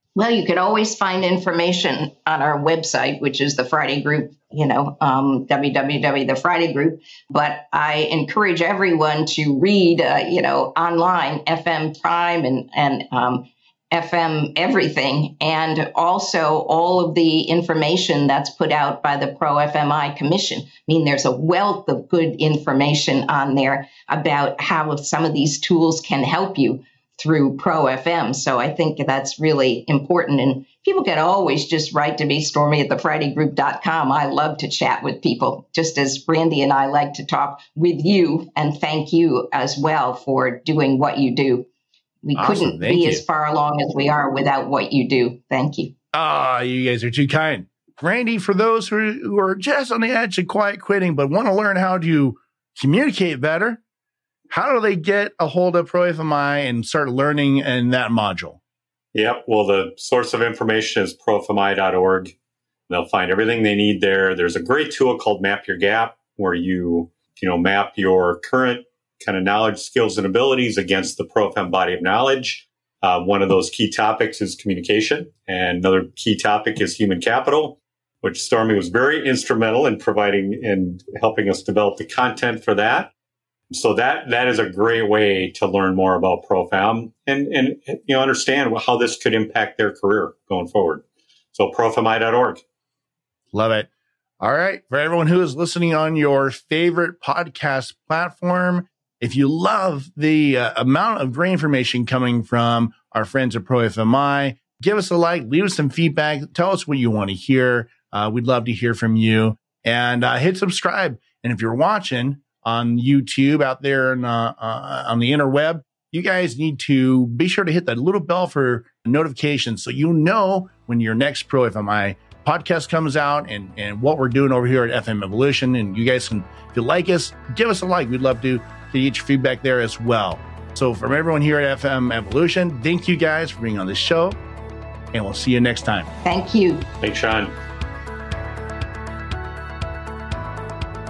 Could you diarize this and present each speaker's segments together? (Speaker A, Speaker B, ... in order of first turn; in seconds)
Speaker A: 0.1-41.7, 42.2-45.9, 136.2-136.8
Speaker B: 42.3-43.2, 46.1-53.8, 54.5-58.6, 93.5-93.9, 94.4-134.4, 135.1-136.1
Speaker C: 59.1-62.3, 62.9-83.1, 83.7-92.6, 137.0-137.5